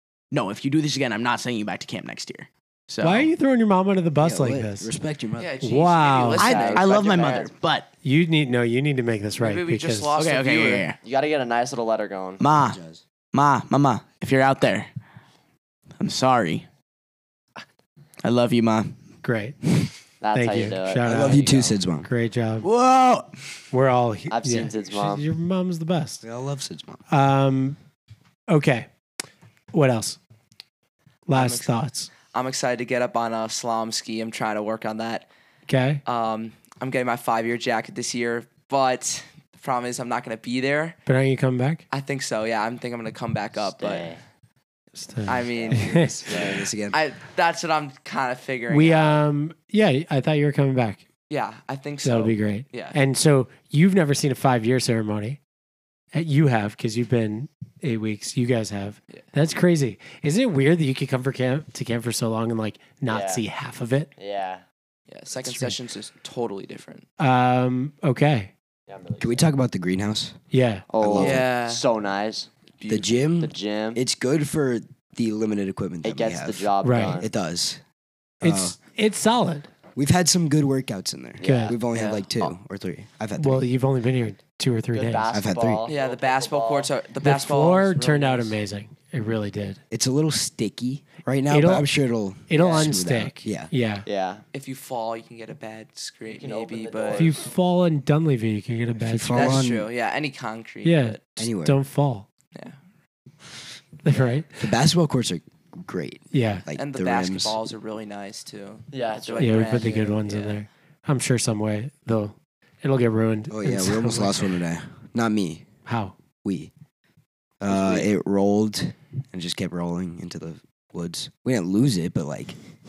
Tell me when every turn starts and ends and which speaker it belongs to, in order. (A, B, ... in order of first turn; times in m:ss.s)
0:00.3-0:03.3 A
0:03.0-0:04.9 B
0:04.2-0:05.6 C
0:05.4-0:07.4 D
0:05.6-0:06.5 B
0:06.4-0:07.9 A
0:06.4-0:07.5 E
0:08.0-0:10.1 B
0:09.3-0:10.9 D
0:10.2-0:11.0 A
0:11.0-0:12.4 E
0:12.4-0:12.8 A
0:12.6-0:13.0 C
0:13.3-0:14.9 A
0:16.0-0:16.6 A
0:18.2-0:19.0 A
0:19.2-0:19.6 B
0:20.2-0:21.8 E
0:20.3-0:21.4 B
0:21.0-0:22.1 C
0:22.0-0:22.7 B
0:22.6-0:23.4 A
0:23.7-0:26.2 B
0:24.3-0:25.3 E
0:26.2-0:27.0 C
0:27.1-0:27.8 B
0:28.5-0:28.9 B
0:29.7-0:30.2 B
0:31.3-0:32.1 B
0:31.3-0:31.7 D
0:32.2-0:35.2 D
0:35.7-0:36.0 B
0:36.0-0:41.0 D
0:41.0-0:41.8 B
0:41.9-0:44.1 D
0:43.8-0:44.2 E
0:45.0-0:46.2 B
0:45.2-0:46.2 D
0:45.4-0:46.6 E
0:45.8-0:47.0 C
0:46.9-0:49.2 D
0:48.7-0:51.0 B
0:51.3-0:53.0 D
0:52.0-0:55.4 B
0:56.1-1:04.1 B
1:03.1-1:03.4 E
1:04.2-1:04.6 E
1:05.1-1:07.0 D
1:05.4-1:05.7 B
1:07.2-1:08.5 B
1:08.9-1:09.5 E
1:09.2-1:10.4 C
1:10.5-1:10.8 B
1:10.9-1:12.5 E
1:11.0-1:11.4 C
1:11.2-1:11.8 D
1:12.8-1:13.1 D
1:12.9-1:17.8 C
1:13.4-1:14.0 E
1:16.0-1:17.3 E
1:16.8-1:17.2 B
1:18.4-1:18.8 C
1:18.4-1:19.7 B
1:19.9-1:23.6 C
1:21.4-1:21.8 E
1:21.4-1:21.8 B
1:21.9-1:22.2 D
1:23.4-1:25.3 B
1:24.9-1:26.9 E
1:25.3-1:25.9 C
1:25.8-1:28.6 D
1:27.2-1:29.8 B
1:29.9-1:33.7 C
1:31.5-1:31.9 B
1:32.5-1:34.0 B
1:32.6-1:32.9 E
1:34.0-1:34.4 E
1:34.5-1:37.3 D
1:36.3-1:37.4 E
1:37.2-1:39.6 B
1:39.0-1:39.9 C
1:39.3-1:41.2 D
1:40.8-1:42.2 B
1:41.4-1:41.8 C
1:44.0-1:44.6 B
1:44.6-1:47.6 C
1:46.3-1:46.6 B
1:46.7-1:50.6 D
1:48.9-1:50.0 E
1:49.4-1:54.4 B
1:53.5-1:55.6 C
1:55.8-1:56.1 B
1:56.4-1:56.7 C
1:57.6-2:02.6 C